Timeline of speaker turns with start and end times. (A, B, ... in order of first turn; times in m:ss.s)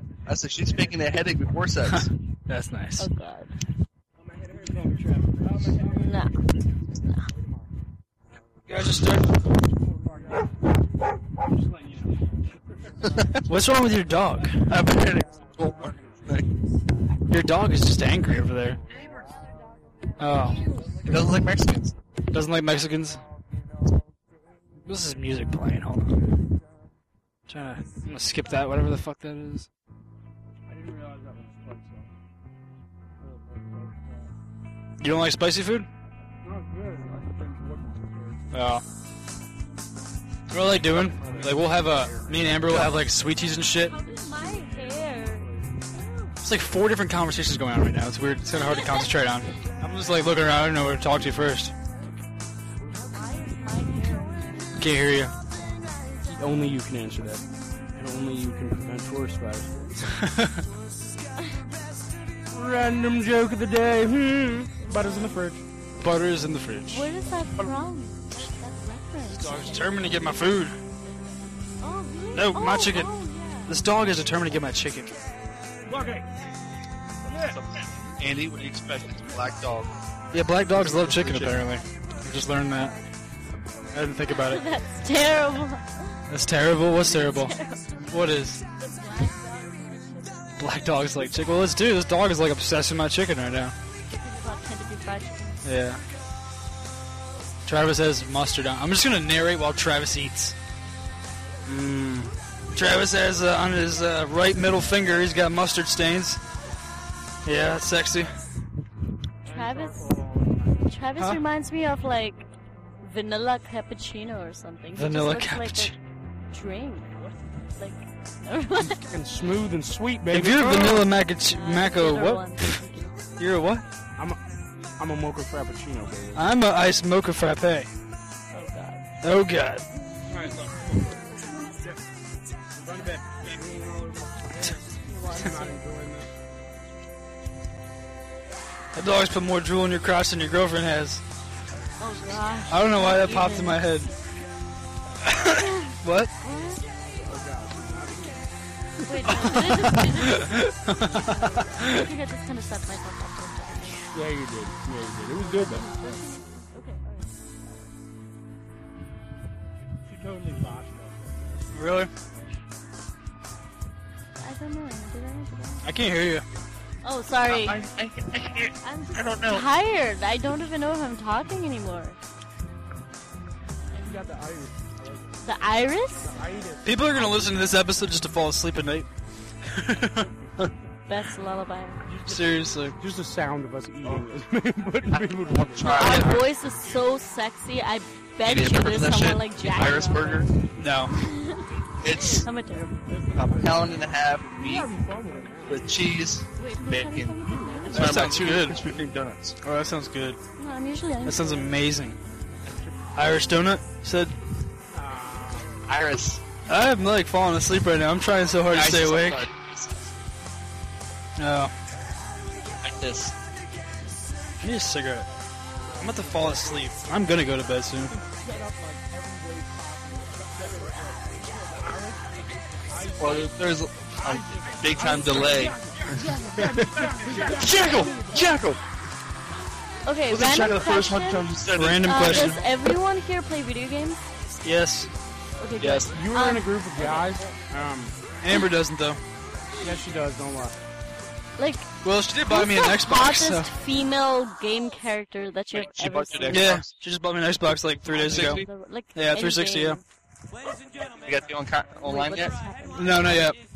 0:00.3-0:02.1 A
0:01.9-0:03.1 B
0:03.0-0:03.5 C
0:04.6-0:05.7 D
0:05.9-0:06.4 C
0:07.0-0:07.3 C
0:08.7-0:09.4 B
0:13.5-0:15.2 B
0:14.9-0:16.5 A
0:17.3-0:18.8 B
0:20.2-0:20.7 B
0:21.0-0:21.9 A
0:22.3-0:23.2 B
0:24.9-0:26.3 B
0:27.5-0:29.7 B
0:30.7-0:32.1 D
0:35.0-0:35.9 B
0:36.4-0:38.6 D
0:38.5-0:38.8 B
0:40.5-0:44.0 B
0:40.9-0:42.0 A
0:43.7-0:45.5 C
0:46.0-0:46.3 C
0:46.4-0:51.7 B
0:48.7-0:49.1 C
0:52.9-0:54.9 C
0:54.8-0:55.4 B
0:56.3-0:59.9 D
1:00.2-1:00.6 B
1:02.5-1:05.6 D
1:04.8-1:05.4 C
1:06.0-1:07.1 B
1:06.9-1:10.1 C
1:09.4-1:10.8 B
1:11.8-1:13.7 C
1:12.3-1:13.1 B
1:13.7-1:15.2 B
1:15.9-1:16.3 D
1:17.3-1:19.9 A
1:20.3-1:23.0 B
1:20.8-1:21.6 A
1:23.9-1:24.7 B
1:24.3-1:26.2 C
1:26.3-1:27.6 B
1:27.1-1:28.0 C
1:28.1-1:28.6 B
1:28.8-1:30.4 C
1:30.6-1:33.8 B
1:34.1-1:35.7 C
1:35.6-1:36.0 B
1:37.7-1:40.6 B
1:41.7-1:42.3 D
1:42.7-1:46.4 B
1:47.4-1:48.3 B
1:49.5-1:50.2 C
1:50.8-1:52.5 C
1:53.0-1:56.0 C
1:55.0-1:56.0 B
1:56.5-1:57.2 C
1:57.8-1:59.2 C
1:58.8-2:01.1 D
2:00.3-2:02.8 B
2:01.4-2:03.2 C
2:03.4-2:03.8 B
2:05.0-2:06.4 D
2:06.4-2:07.9 B
2:08.5-2:09.1 C
2:09.2-2:09.9 B
2:10.2-2:12.0 D
2:12.8-2:16.3 D
2:15.0-2:15.8 C
2:19.0-2:21.2 B
2:22.0-2:23.9 C
2:22.7-2:24.1 B
2:25.2-2:26.3 B
2:25.6-2:26.8 C
2:27.1-2:28.4 D
2:29.0-2:34.1 C
2:29.2-2:32.1 B
2:34.1-2:35.9 D
2:35.4-2:37.9 C
2:40.1-2:41.4 D
2:41.7-2:42.1 B
2:44.4-2:45.9 C
2:45.8-2:46.4 B
2:47.0-2:47.8 C
2:47.5-2:49.6 A
2:48.8-2:52.2 C
2:53.9-2:55.3 D
2:55.4-2:56.4 C
2:56.2-2:57.0 D
2:56.8-2:59.1 B
2:59.7-3:00.3 B
3:01.1-3:02.1 C
3:02.1-3:06.3 D
3:02.2-3:03.0 B
3:05.1-3:06.4 A
3:05.8-3:10.5 C
3:06.0-3:06.3 B
3:08.4-3:10.5 A
3:10.8-3:11.1 B
3:11.1-3:13.2 C
3:12.0-3:12.5 A
3:13.3-3:14.9 A
3:13.3-3:16.0 D
3:15.7-3:19.6 A
3:16.6-3:18.3 C
3:17.9-3:18.8 B
3:19.6-3:20.4 B
3:20.6-3:21.8 C
3:21.2-3:22.2 B
3:23.2-3:24.3 B
3:24.9-3:25.8 D
3:25.9-3:26.4 A
3:26.7-3:29.5 B
3:28.7-3:30.1 A
3:31.4-3:31.7 B
3:32.8-3:33.4 A
3:34.6-3:35.3 B
3:36.0-3:38.2 B
3:38.3-3:41.1 D
3:40.9-3:41.8 C
3:41.7-3:42.2 D
3:42.9-3:43.4 D
3:43.2-3:48.8 A
3:44.2-3:48.4 D
3:50.0-3:54.4 C
3:50.3-3:52.6 A
3:51.7-3:52.6 B
3:54.6-3:55.1 B
3:55.6-3:57.3 C
3:55.8-3:56.1 A
3:56.1-3:58.2 D
3:58.4-3:59.2 B
3:59.8-4:00.8 D
4:01.6-4:01.9 C
4:02.0-4:03.7 B
4:02.4-4:06.7 C
4:05.7-4:06.9 A
4:06.5-4:10.0 B
4:08.1-4:10.0 C
4:08.2-4:08.7 A
4:11.2-4:12.6 A
4:12.0-4:13.3 C
4:12.9-4:13.6 B